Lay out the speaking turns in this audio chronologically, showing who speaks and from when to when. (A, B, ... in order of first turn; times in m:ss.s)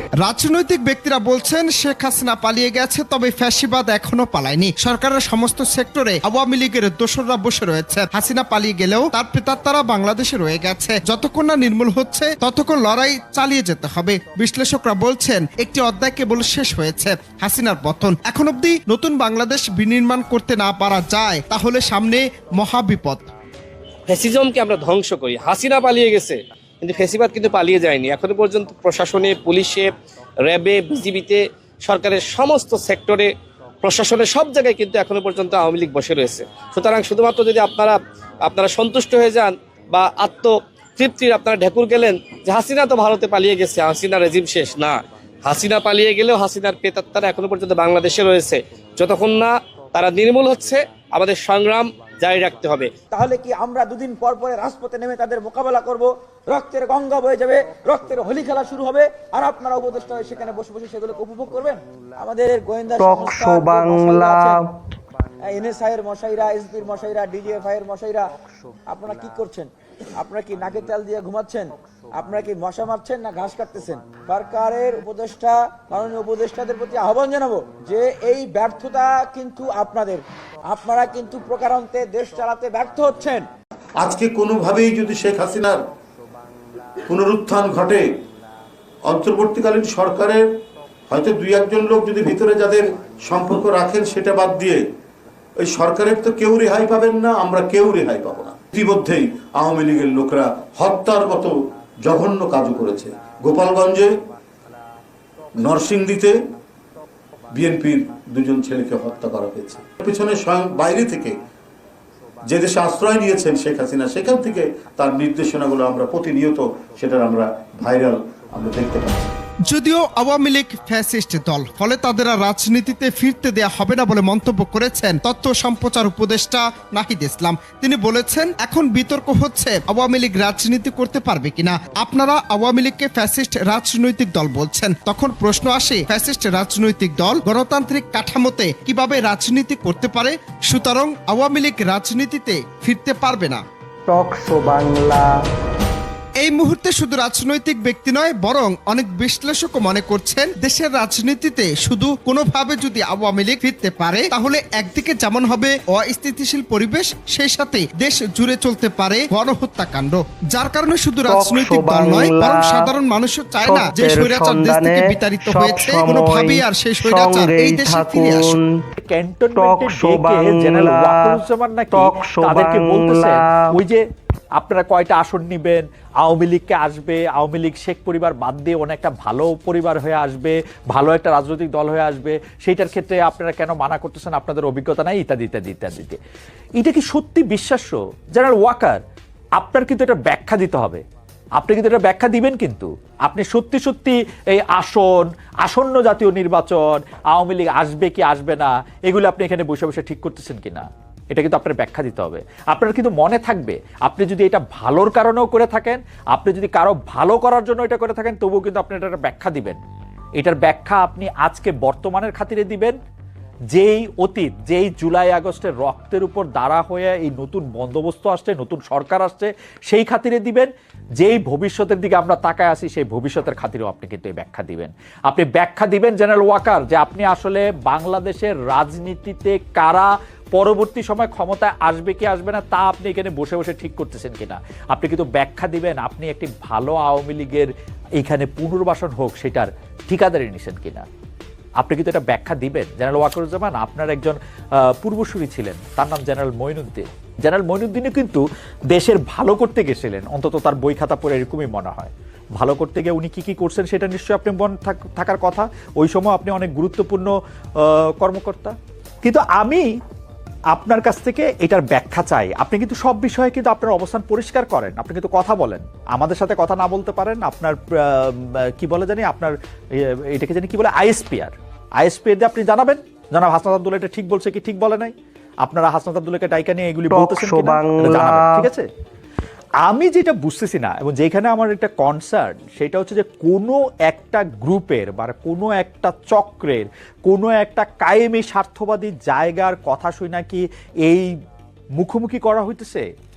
0:00.2-0:23.3 A
0:24.1-0:29.9 B
0:30.5-0:33.3 B
0:33.8-0:52.9 B
0:53.1-1:04.6 C
1:03.0-1:04.7 D
1:05.5-1:08.3 C
1:08.9-1:23.4 C
1:24.0-1:25.8 E
1:27.1-1:28.0 E
1:29.0-1:30.5 E
1:31.1-1:34.8 E
1:35.6-1:44.1 E
1:45.6-1:46.4 E
1:47.5-1:51.4 E
1:52.4-1:59.4 E
1:59.7-2:23.6 A
2:24.1-2:25.3 D
2:26.4-2:48.6 A
2:41.3-2:42.9 D
2:43.6-2:48.7 D
2:49.0-2:54.0 F
2:49.5-2:51.4 D
2:51.9-2:53.8 D
2:54.6-3:06.2 F
3:06.8-3:09.0 F
3:09.6-3:11.0 F
3:11.6-3:29.8 F
3:30.4-3:33.0 F
3:33.7-4:01.0 F
4:01.8-4:04.4 F
4:05.0-4:17.3 F
4:17.8-4:19.9 F
4:20.7-4:38.9 F
4:37.1-4:38.7 D
4:39.8-4:51.2 F
4:52.0-4:53.0 F